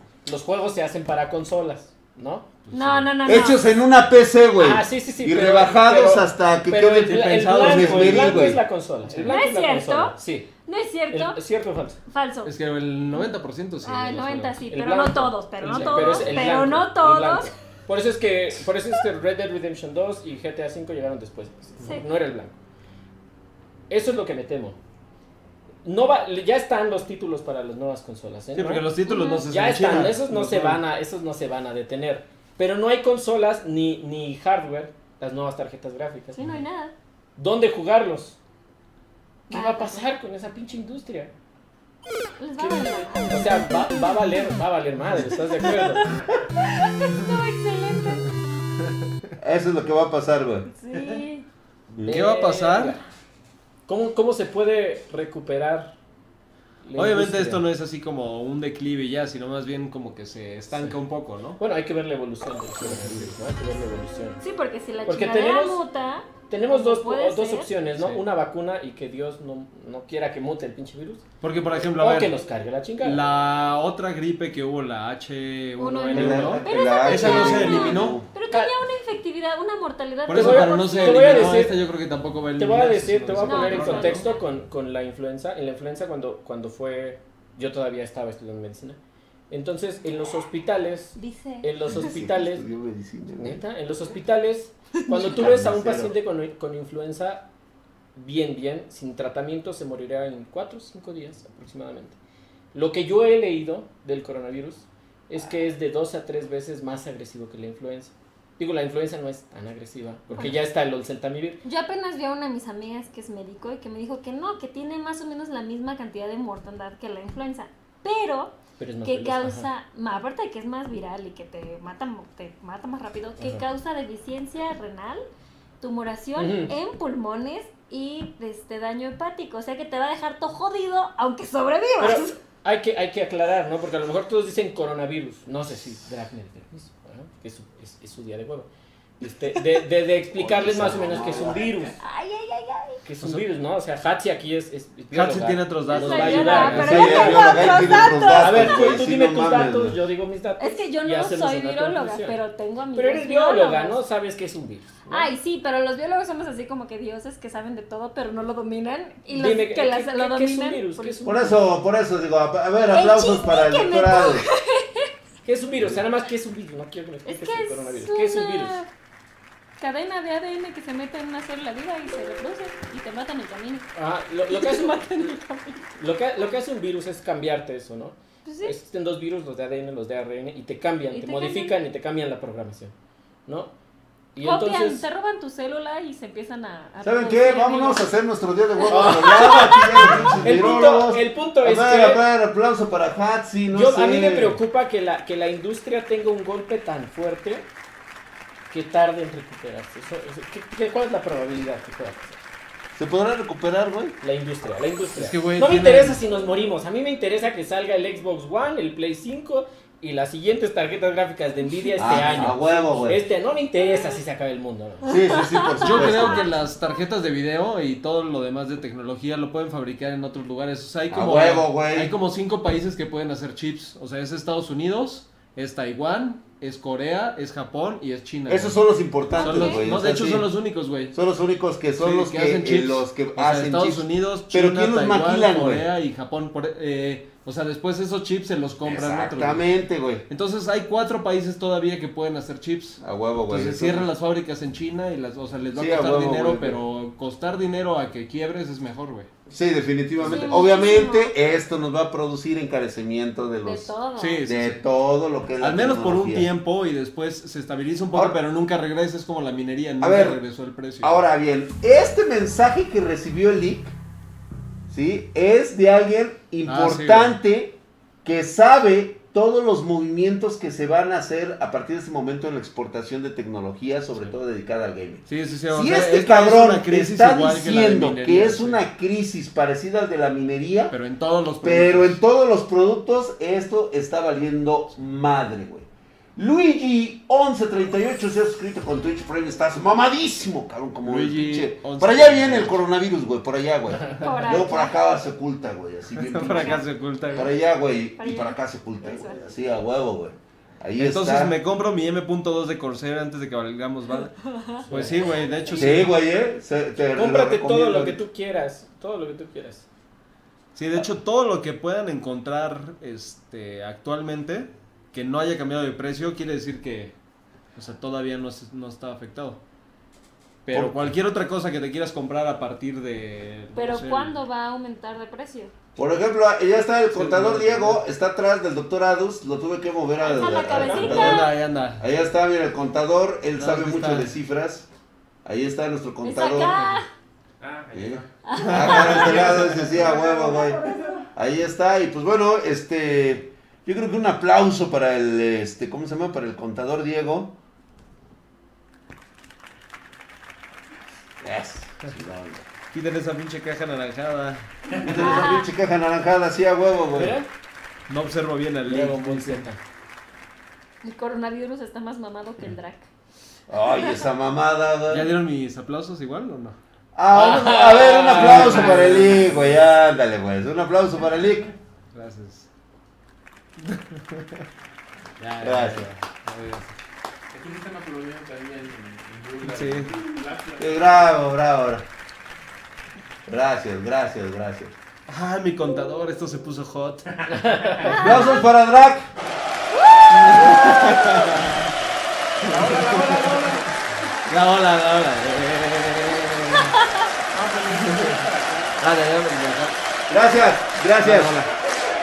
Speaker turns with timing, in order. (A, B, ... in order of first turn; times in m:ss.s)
0:00.2-0:02.5 A
0:02.6-0:03.1 B
0:02.7-0:03.6 C
0:03.2-0:08.6 D
0:04.6-0:10.5 A
0:07.0-0:08.5 B
0:09.1-0:09.4 B
0:09.2-0:11.4 C
0:11.1-0:12.0 A
0:12.1-0:12.5 C
0:12.4-0:14.6 B
0:13.1-0:17.5 C
0:14.7-0:22.5 A
0:15.7-0:16.6 B
0:21.8-0:22.1 C
0:23.9-0:24.8 A
0:25.8-0:28.9 A
0:28.5-0:30.8 B
0:29.0-0:29.5 C
0:29.5-0:36.4 A
0:36.3-0:36.9 C
0:37.4-0:38.4 A
0:39.5-0:40.1 C
0:39.5-0:41.3 A
0:42.4-0:44.3 C
0:42.6-0:46.1 A
0:46.6-0:48.4 C
0:49.4-0:50.7 D
0:50.7-0:51.4 C
0:51.9-0:52.1 D
0:52.0-0:53.0 A
0:52.0-0:53.0 B
0:53.9-0:56.0 A
0:56.8-0:57.6 A
0:56.9-1:01.6 B
1:01.6-1:04.4 A
1:02.9-1:03.3 B
1:04.4-1:07.7 C
1:05.0-1:05.8 A
1:06.5-1:11.2 A
1:08.0-1:08.2 B
1:11.4-1:12.3 B
1:11.9-1:13.2 A
1:13.0-1:18.2 B
1:15.8-1:21.6 C
1:16.1-1:18.3 D
1:20.3-1:24.2 B
1:20.3-1:21.8 A
1:22.6-1:29.0 A
1:23.4-1:24.5 C
1:29.5-1:32.6 A
1:31.2-1:32.1 C
1:31.9-1:33.6 D
1:33.4-1:37.5 A
1:35.1-1:36.1 D
1:38.1-1:42.2 A
1:42.7-1:51.6 A
1:50.3-1:50.6 C
1:51.6-2:05.2 C
1:58.8-1:59.7 A
2:05.8-2:12.3 C
2:06.4-2:06.7 A
2:12.0-2:18.7 A
2:19.2-2:22.0 A
2:20.3-2:21.9 D
2:22.0-2:23.0 C
2:23.0-2:32.4 A
2:25.1-2:27.3 B
2:25.9-2:28.9 C
2:26.7-2:30.0 D
2:30.6-2:34.0 C
2:32.9-2:35.3 A
2:35.1-2:41.2 C
2:39.3-2:41.6 A
2:41.2-2:44.5 D
2:42.9-2:45.1 C
2:45.4-2:48.8 A
2:47.2-2:48.9 C
2:49.8-2:53.9 C
2:53.9-2:55.3 A
2:54.5-2:55.9 C
2:56.0-3:02.9 A
2:58.4-2:58.7 C
3:01.1-3:01.8 C
3:03.4-3:03.7 A
3:04.3-3:05.0 A
3:04.4-3:08.0 C
3:07.0-3:14.6 D
3:08.8-3:10.3 C
3:08.9-3:09.8 A
3:10.4-3:12.2 A
3:13.7-3:17.7 A
3:18.7-3:22.4 A
3:22.9-3:24.2 D
3:24.2-3:35.2 A
3:25.2-3:26.2 B
3:32.0-3:33.2 D
3:32.1-3:32.5 B
3:35.0-3:36.5 D
3:35.1-3:36.5 C
3:35.8-3:48.8 B
3:41.1-3:42.1 D
3:48.5-3:50.5 D
3:49.3-3:49.9 C
3:49.4-3:51.2 B
3:51.1-3:55.9 D
3:52.0-3:59.6 B
3:58.8-4:00.2 D
4:00.3-4:09.3 B
4:03.0-4:04.1 D
4:05.7-4:06.8 D
4:09.5-4:16.5 D
4:10.2-4:11.3 C
4:13.6-4:14.4 C
4:14.2-4:14.8 B
4:15.6-4:21.2 B
4:18.1-4:18.4 D
4:20.0-4:20.4 D
4:21.0-4:24.0 D
4:24.9-4:41.0 D
4:26.6-4:27.4 B
4:35.3-4:38.8 B
4:40.9-4:42.2 B
4:41.6-5:01.6 D
4:51.0-4:52.8 B
4:54.2-4:55.0 C
4:56.2-4:57.5 B
4:56.4-4:56.8 C
4:58.2-4:59.6 C
5:01.0-5:04.3 B
5:04.1-5:06.0 C
5:04.8-5:05.2 A
5:04.9-5:06.1 B
5:05.7-5:08.2 D
5:07.1-5:09.9 A
5:10.7-5:17.2 B
5:17.7-5:19.6 B
5:20.6-5:24.3 B
5:20.7-5:21.1 D
5:23.7-5:25.7 C
5:26.0-5:34.9 D
5:27.1-5:28.0 B
5:30.2-5:31.5 C
5:30.6-5:32.1 B
5:33.6-5:34.3 B
5:35.4-5:36.9 D
5:36.2-5:37.1 C
5:37.6-5:41.2 E
5:37.9-5:47.6 D
5:38.4-5:39.7 C
5:38.6-5:39.3 B
5:51.4-5:52.6 D
5:52.9-5:54.7 B
5:55.0-5:57.4 D
5:55.1-5:55.7 C
5:57.1-5:57.5 A
5:58.1-5:59.6 B
5:58.8-5:59.8 A
6:01.0-6:03.1 C
6:03.7-6:05.3 D
6:03.8-6:04.2 C
6:05.1-6:06.8 B
6:07.1-6:11.7 D
6:07.3-6:09.3 A
6:08.3-6:09.7 B
6:12.1-6:12.7 B
6:13.8-6:14.6 B
6:15.4-6:16.9 B
6:15.6-6:16.1 D
6:17.5-6:21.4 E
6:19.6-6:20.1 B
6:20.8-6:22.0 D
6:23.5-6:24.9 D
6:25.3-6:27.2 B
6:27.3-6:28.3 E
6:27.5-6:28.2 A
6:28.0-6:29.3 D
6:28.2-6:28.6 C
6:28.2-6:28.4 B
6:30.0-6:31.3 C
6:30.3-6:31.9 B
6:30.4-6:31.2 D
6:32.6-6:34.0 E
6:32.7-6:33.6 B
6:34.5-6:37.0 B
6:37.5-6:39.0 E
6:38.1-6:38.4 B
6:39.0-6:40.0 B
6:40.3-6:41.5 D
6:41.2-6:41.7 B